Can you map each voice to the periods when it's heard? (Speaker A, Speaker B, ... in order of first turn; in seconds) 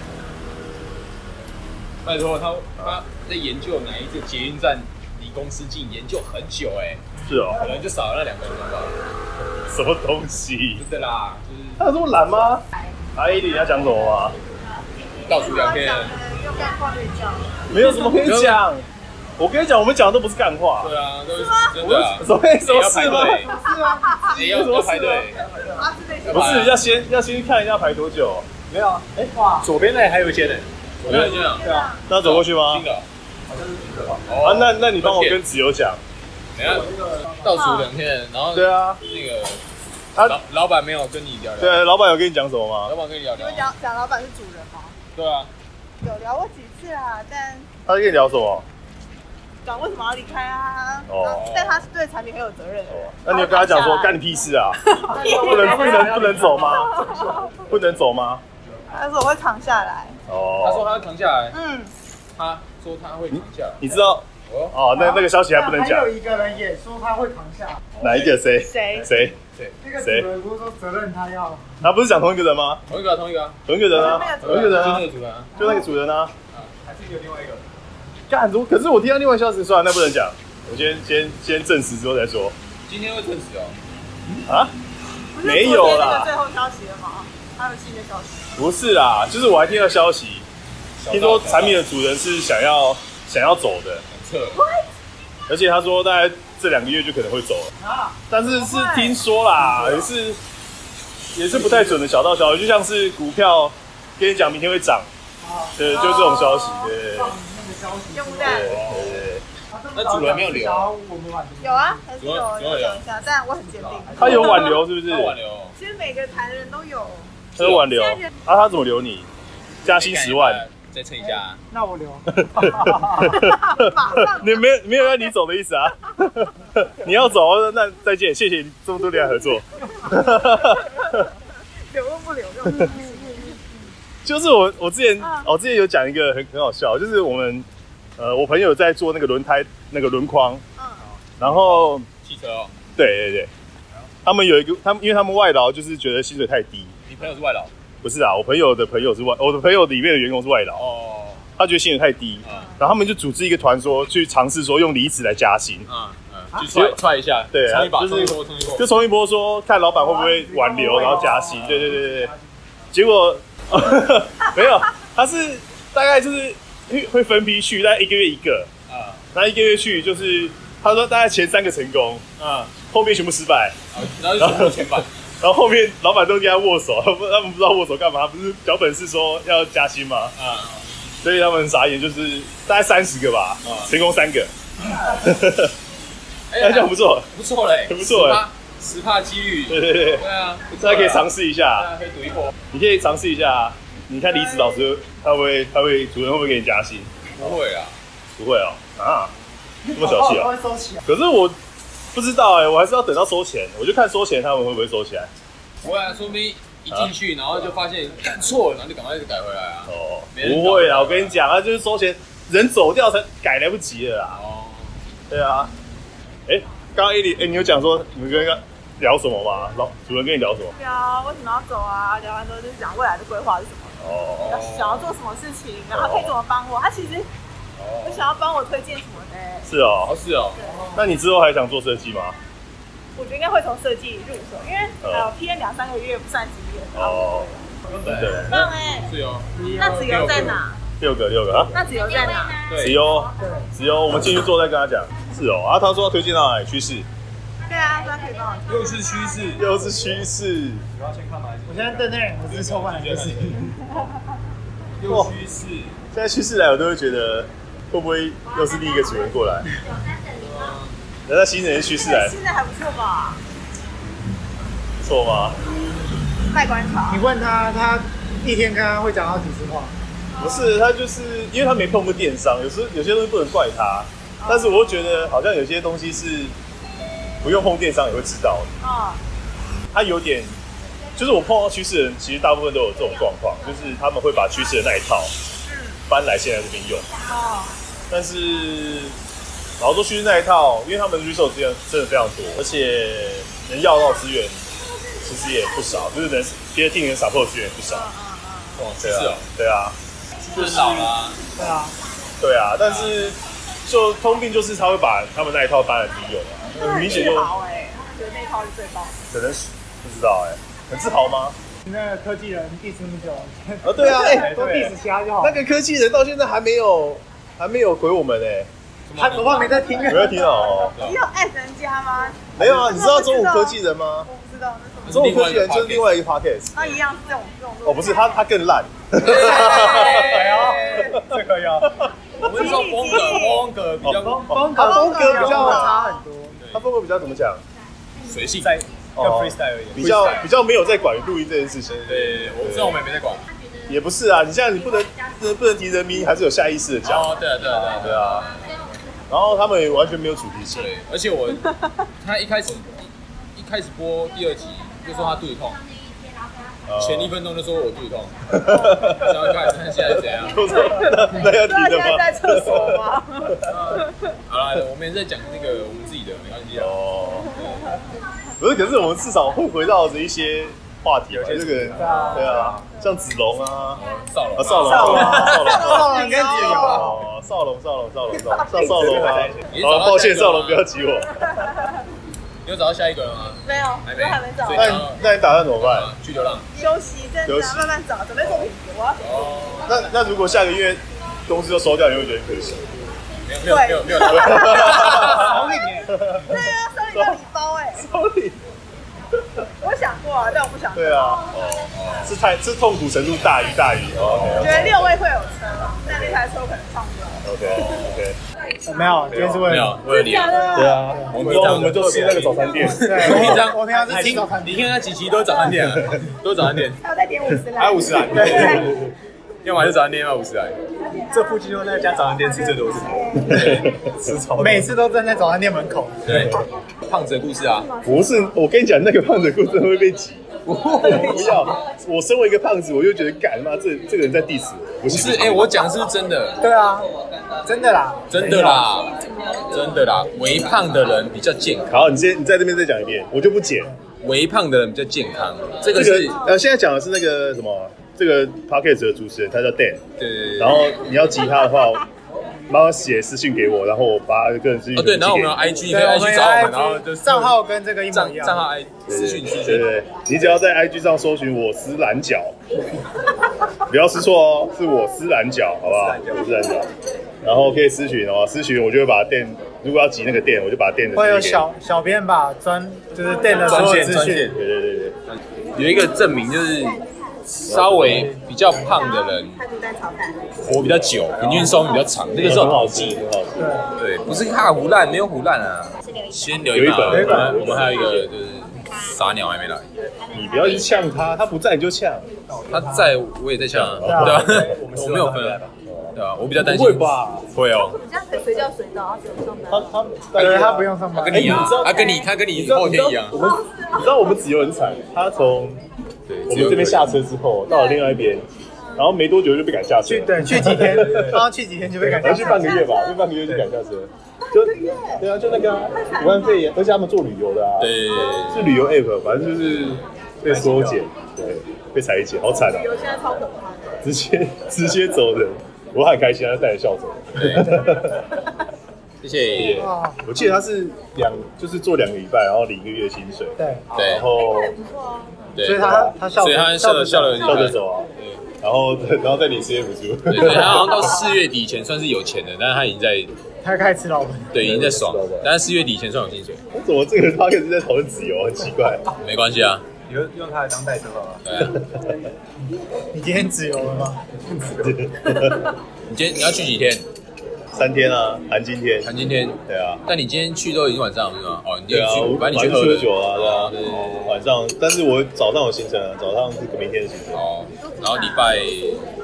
Speaker A: 2.0-9.0, 10.8-11.9, 15.3-16.2, 17.8-18.6, 20.8-23.6, 24.3-25.5, 26.2-26.8, 31.0-33.1, 34.2-35.4, 36.5-36.9, 37.4-39.6, 40.2-41.8, 42.9-43.7, 45.1-45.5, 51.3-51.8, 55.1-57.1, 60.6-61.6, 62.4-63.9, 64.5-64.8, 68.0-68.3, 72.9-75.5, 82.9-83.8, 91.0-91.9, 94.1-94.6, 99.8-100.0, 108.6-109.2, 109.9-110.9, 112.2-113.0, 114.1-115.8, 117.6-117.9, 119.8-121.6, 141.4-142.7, 147.1-147.7, 150.8-151.4, 152.4-152.7, 155.9-158.9, 161.4-162.0, 168.9-169.2, 172.4-172.7, 173.9-175.1, 180.3-180.8, 183.6-183.9, 186.5-192.6, 197.4-198.0, 205.8-211.4, 214.3-215.1, 224.4-225.1, 227.8-228.3, 230.0-230.6, 237.9-240.6, 242.6-243.1, 248.7-249.7, 252.5-253.8, 255.0-256.0, 260.3-260.9, 298.8-299.5, 300.4-301.4, 302.8-303.2, 319.1-320.1, 320.8-321.2, 325.0-326.2, 329.2-331.2, 332.4-334.7, 336.5-336.9, 338.2-338.8, 340.0-340.5, 342.1-343.5, 347.0-348.7, 350.7-355.9, 357.0-360.9, 363.6-367.0, 367.5-367.9, 373.9-377.1, 379.7-380.9, 382.6-385.2, 385.8-386.7, 389.2-390.0, 393.4-395.8, 401.9-402.4, 404.1-404.9, 407.7-408.3, 409.3-417.0, 418.4-418.8, 419.6-420.8, 423.5-424.0, 426.3-427.9, 430.8-431.5, 435.1-436.6, 438.3-442.0, 444.2-446.5, 450.2-451.0, 454.9-459.9, 473.6-474.6, 475.8-479.6, 480.6-483.1, 484.0-490.8, 492.7-495.6, 496.1-498.0, 501.1-503.4, 506.3-507.2, 517.8-518.8, 527.3-527.9, 529.2-529.9, 533.9-534.3, 535.5-538.4, 540.3-543.3, 544.5-546.6, 549.2-549.9, 551.5-551.8, 556.1-557.0, 559.0-564.4, 567.3-569.0
Speaker B: 7.2-7.6, 9.7-10.8, 11.8-12.6, 13.2-14.4, 17.7-18.9, 19.4-20.9, 21.8-23.5, 24.2-25.3, 26.3-28.5, 31.1-31.4, 32.1-32.9, 34.4-36.0, 38.5-39.0, 41.6-42.9, 47.9-48.6, 51.1-51.5, 52.9-57.1, 57.6-58.4, 60.3-60.9, 63.3-66.2, 68.0-69.3, 70.0-70.3, 71.8-72.8, 73.7-76.3, 78.3-82.5, 84.5-84.7, 85.4-86.3, 88.6-90.5, 91.1-94.0, 95.5-97.7, 98.3-100.4, 101.3-105.1, 105.8-107.4, 108.4-109.4, 114.2-115.4, 117.6-119.3, 119.8-120.6, 122.5-131.3, 134.2-140.6, 141.4-142.1, 143.0-143.5, 144.2-146.9, 148.0-150.8, 151.6-155.9, 156.7-157.0, 157.5-162.3, 162.9-168.7, 169.3-173.8, 174.4-174.9, 175.4-180.3, 181.2-184.5, 185.0-185.7, 186.6-187.3, 187.9-188.4, 189.7-191.9, 192.7-197.6, 198.4-199.3, 199.9-200.5, 201.1-201.6, 202.1-205.3, 209.9-214.4, 215.3-215.7, 216.5-220.7, 224.0-224.5, 225.9-226.3, 229.7-230.1, 230.9-232.3, 235.0-235.3, 236.9-237.5, 238.1-238.7, 241.0-241.8, 242.8-247.1, 249.6-250.8, 255.0-255.3, 256.1-259.7, 261.3-262.4, 265.0-265.6, 270.4-276.6, 277.4-278.7, 279.9-280.6, 281.2-285.3, 286.1-287.1, 288.1-289.2, 289.8-294.6, 295.2-298.1, 299.0-300.0, 300.6-301.1, 302.4-307.5, 309.3-311.6, 313.8-318.7, 320.0-321.0, 322.6-324.3, 325.1-326.8, 327.8-330.6, 334.0-336.0, 336.7-337.6, 339.2-342.1, 342.6-343.0, 343.9-348.6, 349.3-350.9, 356.9-357.4, 358.5-363.6, 366.7-367.6, 368.6-374.0, 374.6-381.6, 384.7-386.1, 387.4-388.0, 389.9-392.9, 394.4-395.5, 396.1-397.4, 397.9-398.6, 400.9-405.1, 406.1-406.4, 407.4-408.4, 410.7-413.7, 418.6-419.0, 423.5-424.3, 428.0-435.9, 441.9-443.9, 445.9-450.0, 450.6-452.0, 452.7-455.8, 459.1-462.6, 463.8-466.9, 467.4-471.7, 473.6-475.2, 477.7-478.4, 480.7-481.7, 482.3-483.8, 486.7-488.3, 490.3-492.3, 493.7-494.6, 495.9-497.5, 499.7-505.8, 506.5-511.5, 512.0-523.0, 524.0-528.3, 529.5-534.8, 535.8-536.2, 537.4-538.1, 538.6-541.1, 544.6-545.5, 546.7-549.0, 551.8-552.1, 554.8-555.7, 557.7-559.1, 559.7-560.0, 561.9-567.4
Speaker C: 15.3-17.7, 21.4-21.7, 23.7-24.3, 25.7-26.9, 31.1-32.0, 37.5-37.9, 43.4-45.0, 46.0-47.7, 49.6-54.2, 54.9-56.1, 56.6-57.6, 58.9-60.2, 61.5-61.9, 68.0-69.1, 73.9-75.0, 85.3-88.5, 94.5-94.8, 98.4-99.2, 105.9-107.0, 108.1-108.7, 111.6-114.8, 115.8-118.3, 123.4-124.6, 130.0-131.2, 131.9-133.8, 135.2-135.5, 140.8-141.1, 220.8-227.3, 228.0-229.7, 230.6-230.9, 233.2-237.6, 238.5-239.1, 239.7-240.8, 241.7-242.7, 247.7-249.1, 258.5-259.3, 261.9-263.4, 266.5-267.3, 270.3-270.8, 274.4-275.4, 278.8-279.2, 285.6-286.0, 287.2-287.8, 297.9-298.8, 306.7-309.2, 319.9-325.5, 326.7-328.4, 329.3-331.2, 332.4-333.7, 334.7-336.2, 360.7-363.6, 372.0-373.0, 375.2-377.1, 381.4-382.0, 383.6-385.0, 386.8-390.3, 393.6-395.7, 396.3-398.1, 399.8-401.5, 404.6-407.4, 410.1-411.1, 417.0-418.9, 478.8-480.6, 498.0-500.1, 501.8-502.3, 503.4-504.1, 507.7-508.1, 512.2-513.3, 514.5-515.2, 515.9-516.7, 522.6-524.0, 534.3-535.3, 567.8-568.6
Speaker D: 23.0-24.2, 29.3-29.7, 64.9-67.8, 69.8-71.7, 97.8-98.2, 105.4-106.5, 107.1-108.8, 109.7-112.0, 121.2-123.5, 160.0-161.9, 199.8-201.1, 230.6-231.0, 239.6-240.4, 243.4-243.7, 251.7-253.8, 267.1-269.9, 301.6-302.0, 311.9-315.6, 319.1-320.7, 330.7-331.1, 334.5-336.6, 372.0-372.4, 374.8-377.2, 395.1-396.2, 408.9-410.0, 411.0-411.4, 413.0-415.0, 424.6-426.4, 430.7-431.6, 436.6-437.1, 437.6-438.9, 455.9-458.7, 471.1-474.5, 483.6-483.9, 487.1-487.6, 494.1-494.4, 500.3-501.8, 510.1-512.9, 529.6-530.2, 533.6-533.9, 535.6-537.6, 543.6-544.6, 553.1-554.2
Speaker E: 25.3-25.9, 28.7-32.0, 33.5-34.3, 36.6-37.5, 55.5-56.9, 76.8-77.6, 162.1-162.3, 250.9-252.2, 330.3-332.0, 335.3-335.8, 338.6-340.4, 341.9-342.6, 371.3-372.9, 378.6-379.7, 414.1-414.5, 417.8-419.1, 421.3-424.9, 465.9-466.6, 478.0-478.3, 481.4-481.9, 492.5-493.1, 494.1-495.8, 520.5-521.1, 550.1-551.4, 554.4-555.1